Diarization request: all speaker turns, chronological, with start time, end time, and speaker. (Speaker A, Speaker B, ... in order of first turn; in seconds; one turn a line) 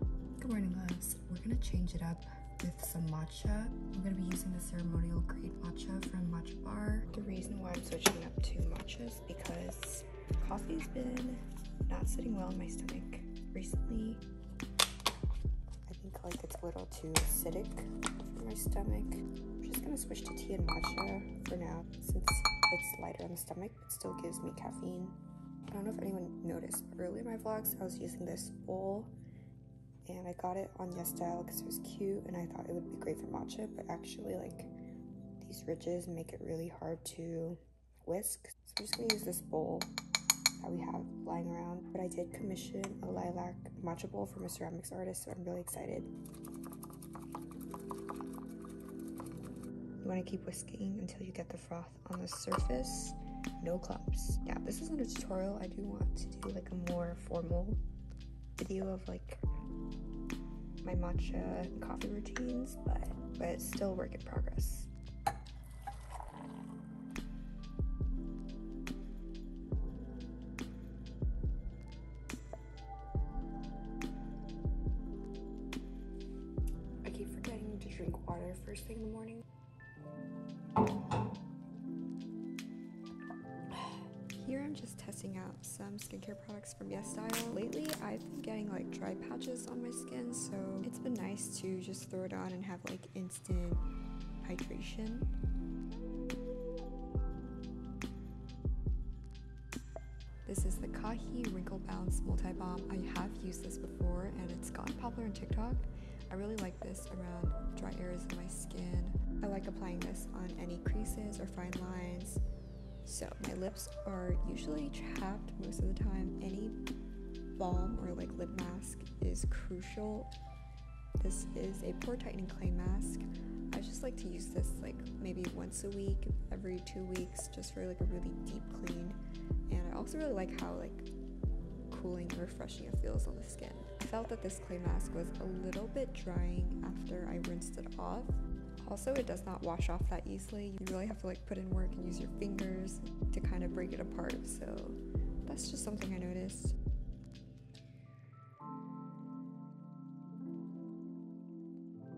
Speaker A: 0.4-14.2
Speaker A: 15.9-29.1
Speaker A: 30.1-34.7
Speaker A: 35.4-39.9
Speaker A: 40.6-46.1
Speaker A: 50.0-57.8
Speaker A: 58.6-59.4
Speaker A: 60.8-64.9
Speaker A: 77.0-79.4
Speaker A: 84.3-93.8
Speaker A: 94.4-95.3
Speaker A: 100.4-112.4
Speaker A: 113.0-116.8
Speaker A: 117.5-120.3
Speaker A: 121.2-129.2
Speaker A: 129.7-131.1
Speaker A: 131.9-146.8